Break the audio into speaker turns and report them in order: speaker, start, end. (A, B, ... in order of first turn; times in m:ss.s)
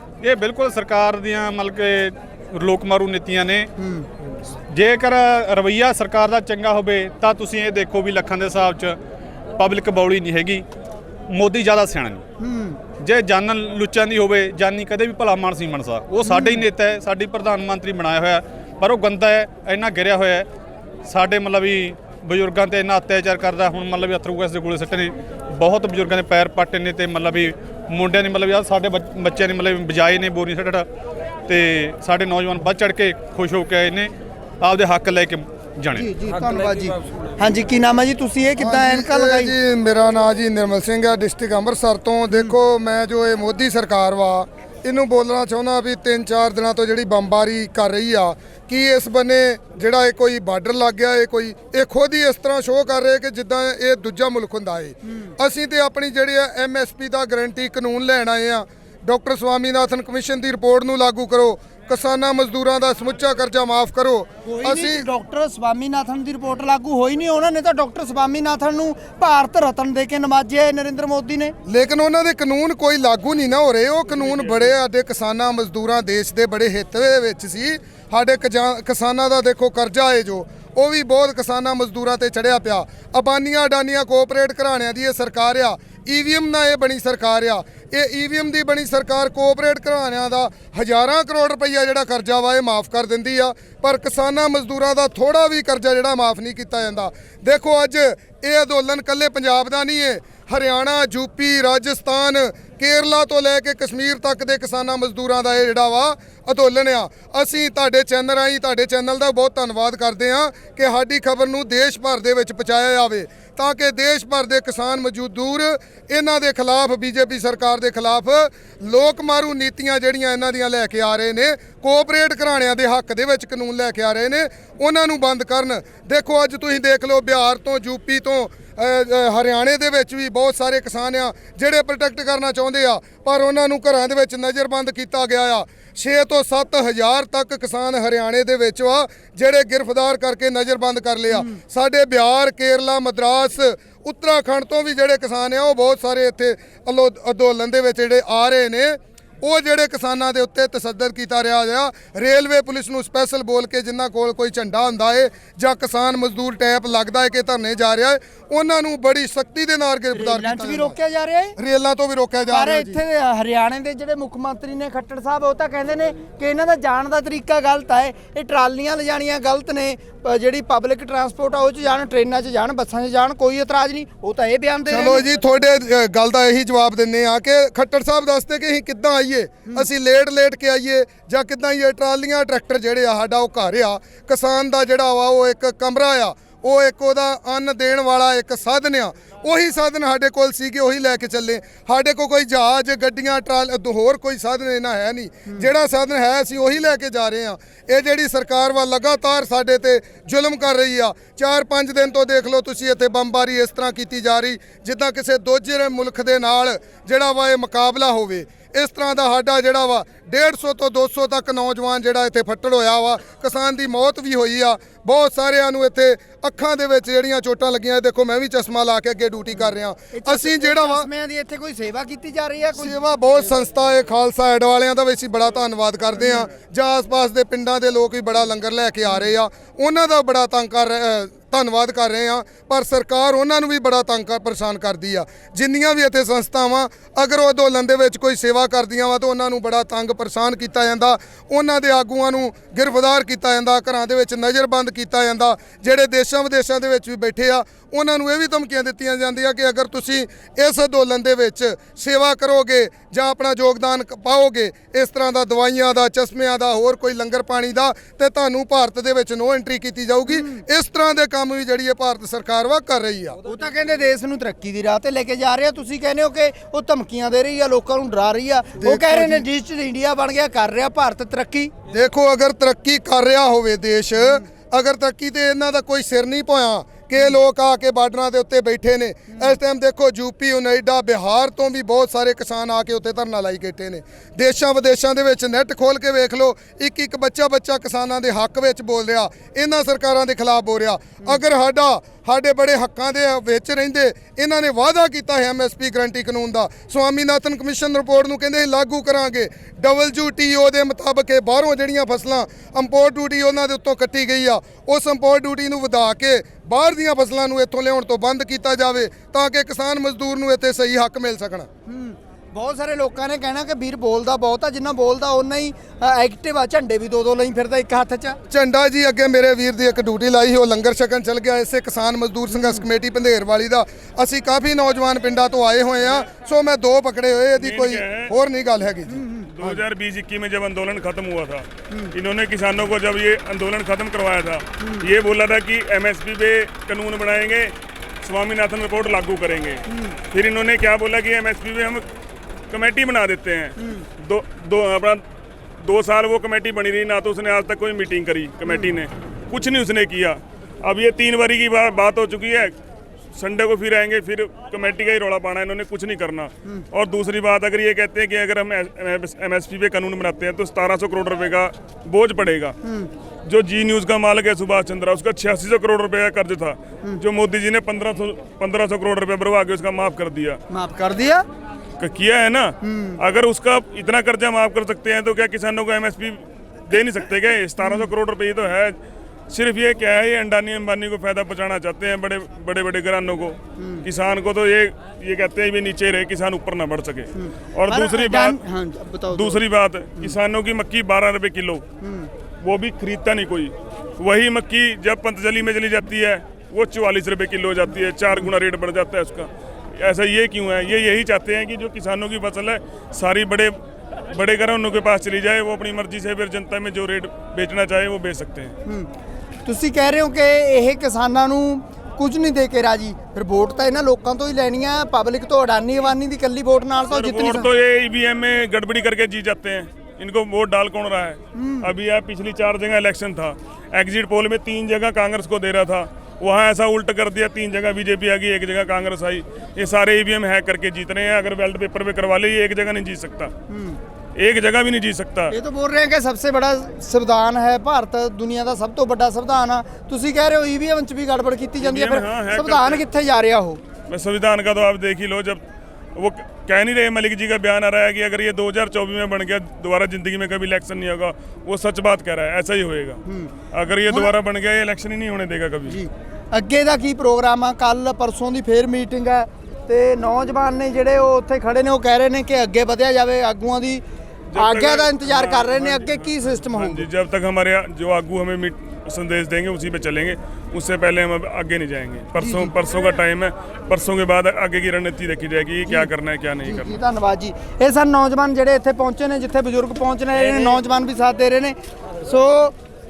0:00.2-0:03.7 A
0:03.8-0:04.1 B
0:04.7-0:09.0 A
0:09.6-0:10.7 A
0:11.3-0:12.2 A
0:12.4-0:12.8 B
0:13.0-0:20.5 A
0:16.3-0:16.6 B
0:21.0-0:30.9 A
0:31.5-0:36.1 A
0:35.9-0:39.6 B
0:38.6-1:05.1 C
1:04.5-1:11.6 B
1:11.7-2:41.0 C
2:40.2-2:41.6 B
2:41.6-2:43.0 C
2:42.5-2:55.2 B
2:54.9-3:41.1 C
3:39.6-3:42.9 B
3:42.8-4:23.4 C
3:46.2-3:46.4 B
4:20.3-4:20.6 B
4:23.4-4:31.7 B
4:28.8-4:29.4 C
4:31.9-5:11.7 C
5:11.9-5:18.4 B
5:18.5-5:29.2 C
5:22.5-5:22.8 B
5:27.6-5:28.3 D
5:29.1-5:29.5 B
5:29.4-5:42.0 D
5:34.8-5:35.1 B
5:39.9-5:40.2 B
5:42.7-5:45.2 D
5:45.8-5:52.8 D
5:48.7-5:49.0 B
5:53.4-6:02.8 D
6:03.4-6:10.6 D
6:10.7-6:11.5 B
6:12.0-6:28.6 D
6:12.8-6:13.2 B
6:17.8-6:18.1 B
6:23.8-6:24.1 B
6:27.4-6:29.6 B
6:29.3-6:31.8 D
6:32.0-6:32.3 B
6:32.6-6:43.8 D
6:44.3-6:48.8 D
6:49.7-6:57.7 B
6:57.1-7:13.5 D
7:01.6-7:01.9 B
7:13.7-7:14.0 B
7:14.4-7:15.6 D
7:15.5-7:23.8 B
7:21.8-7:23.0 D
7:24.1-7:25.6 D
7:26.2-7:36.0 D
7:33.3-7:33.5 B
7:35.9-7:44.0 B
7:44.5-7:57.0 D
7:44.6-7:47.1 B
7:52.4-7:52.7 B
7:56.6-8:02.8 B